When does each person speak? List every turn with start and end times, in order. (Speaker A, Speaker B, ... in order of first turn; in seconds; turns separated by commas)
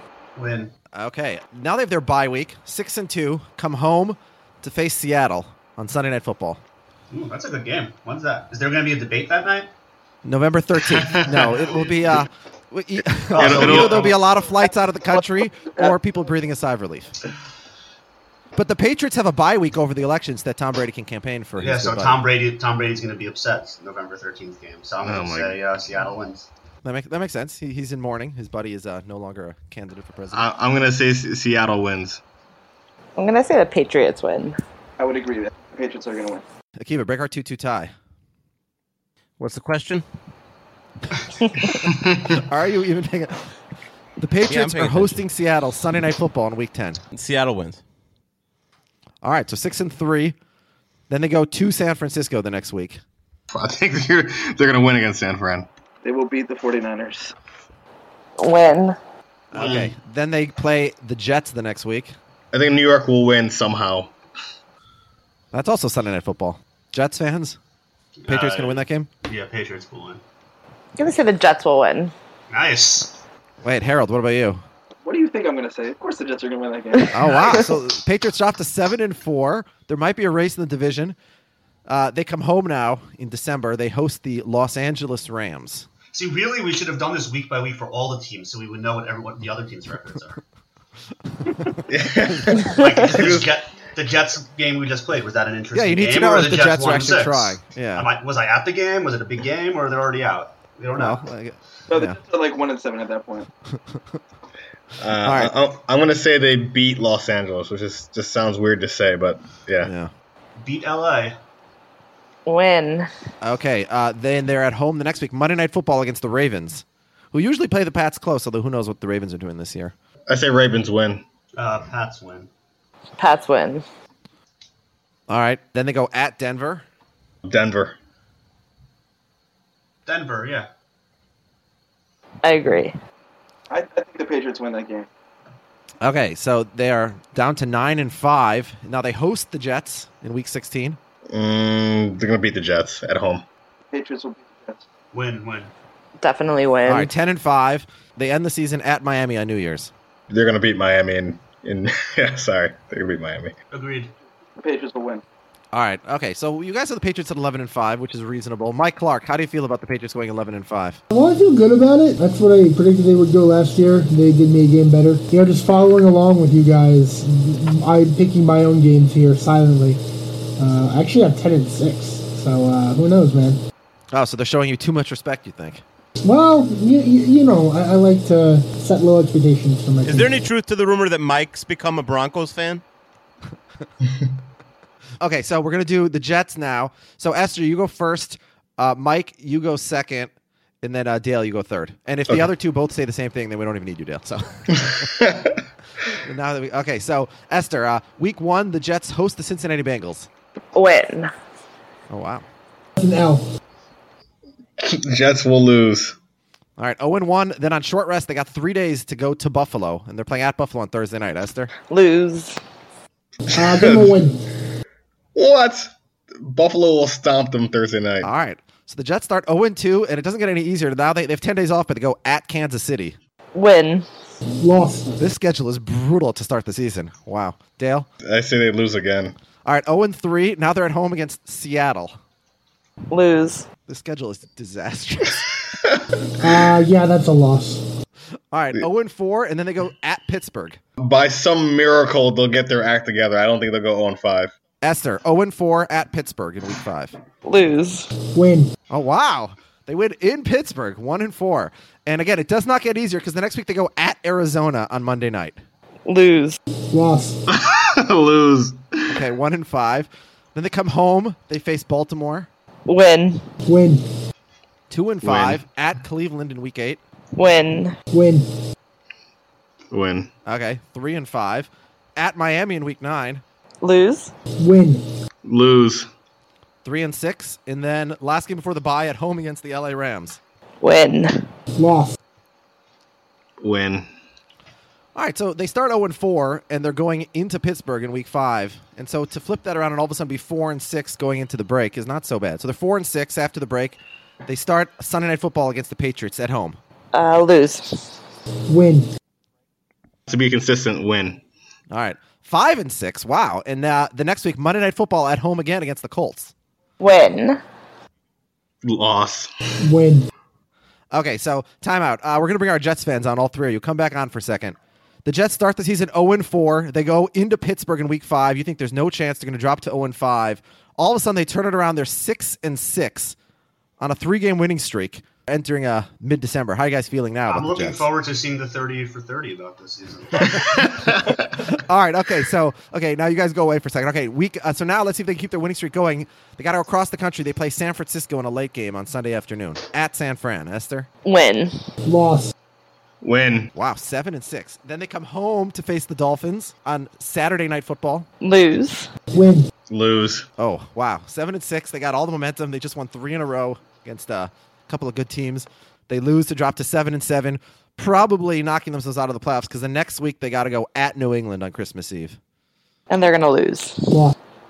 Speaker A: 0.4-0.7, Speaker B: 0.9-6.6, Speaker A: 7.1-9.7, Speaker B: 10.2-17.1, Speaker C: 10.8-11.7, Speaker A: 13.3-14.2, Speaker C: 13.3-14.1, Speaker D: 15.1-16.0, Speaker B: 18.6-22.2, Speaker A: 21.6-26.5, Speaker C: 25.0-25.6, Speaker B: 26.8-30.5, Speaker C: 30.3-32.2, Speaker E: 33.2-34.6, Speaker D: 35.0-36.4, Speaker B: 36.8-37.9, Speaker F: 39.4-40.0, Speaker C: 41.7-42.4, Speaker B: 42.3-43.5, Speaker B: 44.2-47.0, Speaker F: 44.5-45.2, Speaker F: 47.1-47.8, Speaker B: 49.2-50.4, Speaker B: 51.1-53.0, Speaker C: 53.5-55.7, Speaker D: 56.0-57.3, Speaker E: 58.4-59.0, Speaker B: 59.5-62.2, Speaker A: 59.5-60.0, Speaker C: 62.5-64.1, Speaker B: 65.5-67.6, Speaker A: 68.2-70.2, Speaker B: 68.3-69.1, Speaker E: 71.0-72.1, Speaker A: 72.5-73.2, Speaker B: 73.6-74.6, Speaker D: 75.0-77.2, Speaker B: 77.1-81.2, Speaker B: 81.9-85.9, Speaker A: 86.1-90.4, Speaker B: 91.5-91.8, Speaker C: 91.9-93.5, Speaker A: 92.7-101.2, Speaker B: 95.7-98.1, Speaker B: 101.0-102.2, Speaker D: 101.9-103.5, Speaker B: 103.7-104.2, Speaker C: 105.0-109.9, Speaker B: 105.2-105.5, Speaker B: 109.8-110.1, Speaker A: 110.6-111.3, Speaker E: 112.5-113.1, Speaker B: 113.4-119.9, Speaker C: 120.3-121.2, Speaker A: 121.6-122.5, Speaker E: 123.2-123.8, Speaker B: 125.3-126.8, Speaker C: 127.5-128.0, Speaker A: 130.1-130.7, Speaker E: 132.4-132.9, Speaker D: 133.7-135.1, Speaker B: 136.0-141.0, Speaker C: 141.3-143.4, Speaker D: 143.9-144.9, Speaker A: 145.1-145.7, Speaker E: 146.2-147.1, Speaker B: 146.9-149.9, Speaker C: 150.3-153.5, Speaker A: 153.7-154.1, Speaker D: 154.6-155.2, Speaker B: 155.7-161.0, Speaker G: 161.1-170.0, Speaker G: 170.6-173.6, Speaker B: 174.1-175.8, Speaker G: 176.2-180.3, Speaker F: 180.0-182.8, Speaker B: 185.2-195.1, Speaker C: 194.9-195.5, Speaker B: 196.1-200.3, Speaker E: 200.8-201.3, Speaker B: 202.1-202.4, Speaker G: 203.0-203.5, Speaker C: 204.8-206.2, Speaker B: 206.8-211.7, Speaker E: 211.9-212.6, Speaker G: 213.5-214.4, Speaker C: 213.6-214.1, Speaker C: 215.3-215.9, Speaker C: 216.5-218.3, Speaker B: 218.2-223.2, Speaker E: 223.6-224.1, Speaker G: 224.6-225.2, Speaker B: 225.2-228.1, Speaker C: 228.2-229.3, Speaker B: 229.7-232.2, Speaker E: 233.1-233.7, Speaker B: 233.9-235.5, Speaker G: 236.4-237.8, Speaker B: 238.5-240.8, Speaker C: 241.0-244.5, Speaker B: 244.8-247.2, Speaker E: 247.4-248.1, Speaker G: 248.3-248.7, Speaker B: 248.9-255.6, Speaker E: 256.1-256.6, Speaker G: 256.9-257.4, Speaker C: 257.5-258.8, Speaker B: 259.1-262.5, Speaker E: 262.9-263.5, Speaker G: 263.6-264.1, Speaker B: 264.9-267.0, Speaker C: 265.2-265.6, Speaker E: 267.4-267.9, Speaker G: 268.1-268.5, Speaker C: 269.9-270.3, Speaker B: 270.5-273.4, Speaker E: 273.8-274.3, Speaker G: 274.6-275.1, Speaker C: 275.4-276.1, Speaker B: 276.8-280.4, Speaker E: 280.8-281.4, Speaker G: 281.8-282.1, Speaker C: 283.6-284.1, Speaker B: 285.1-296.8, Speaker E: 297.1-298.1, Speaker G: 298.7-299.1, Speaker C: 300.3-301.4, Speaker B: 301.9-306.5, Speaker E: 307.0-307.6, Speaker C: 308.8-309.5, Speaker G: 309.8-310.3, Speaker B: 311.1-323.4, Speaker B: 324.0-328.1, Speaker A: 327.5-330.5, Speaker B: 330.4-341.1, Speaker C: 330.6-331.3, Speaker E: 341.2-341.8, Speaker G: 342.0-342.5, Speaker C: 343.2-343.7, Speaker B: 343.7-348.3, Speaker E: 348.4-349.1, Speaker G: 349.3-349.7, Speaker C: 349.9-350.5, Speaker B: 350.6-362.4, Speaker E: 363.1-364.1, Speaker G: 364.1-364.4